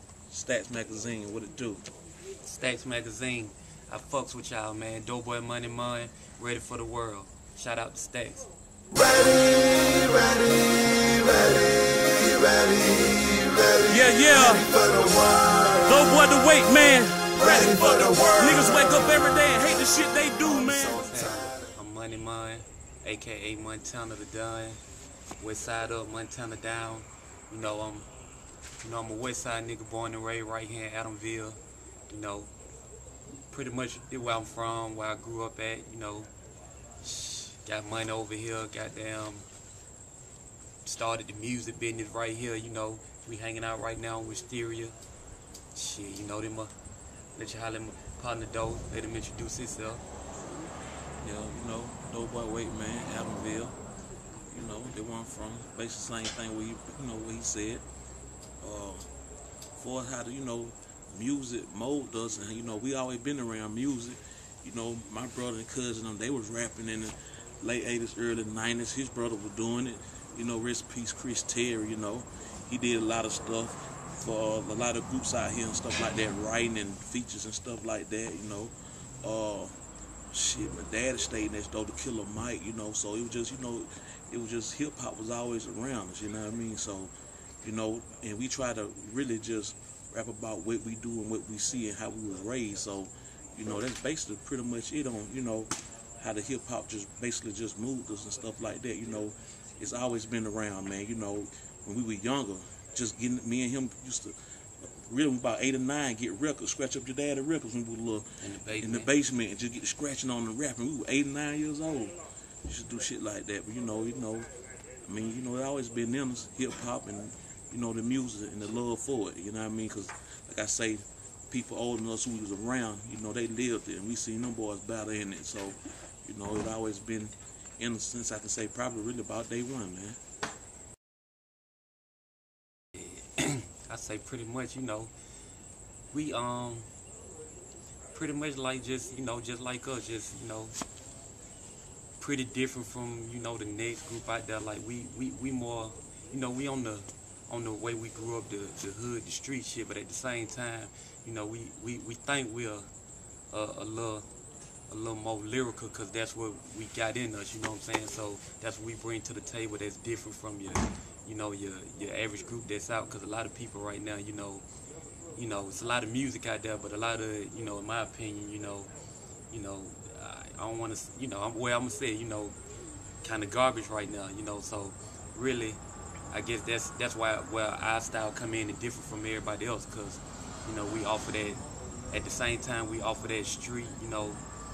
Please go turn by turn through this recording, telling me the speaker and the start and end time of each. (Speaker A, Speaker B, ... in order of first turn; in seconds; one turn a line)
Speaker A: 0.3-1.9
Speaker B: 2.4-8.5
Speaker C: 8.9-13.8
Speaker A: 13.8-21.1
Speaker C: 14.7-15.2
Speaker B: 20.4-24.8
Speaker B: 25.4-28.1
Speaker B: 28.8-32.5
Speaker B: 33.5-36.3
Speaker B: 37.0-39.5
Speaker B: 40.8-44.9
Speaker B: 45.7-46.7
Speaker B: 47.4-50.0
Speaker A: 51.2-53.8
Speaker A: 54.5-57.8
Speaker A: 58.6-59.1
Speaker A: 59.8-79.8
Speaker A: 80.3-87.1
Speaker A: 87.6-114.5
Speaker B: 108.4-109.1
Speaker A: 115.0-130.2
Speaker B: 132.9-135.1
Speaker B: 136.1-136.9
Speaker B: 138.1-140.8
Speaker B: 142.2-152.9
Speaker B: 153.5-154.2
Speaker B: 154.9-164.6
Speaker B: 165.3-168.9
Speaker B: 169.5-172.6
Speaker B: 173.2-175.8
Speaker B: 176.3-184.4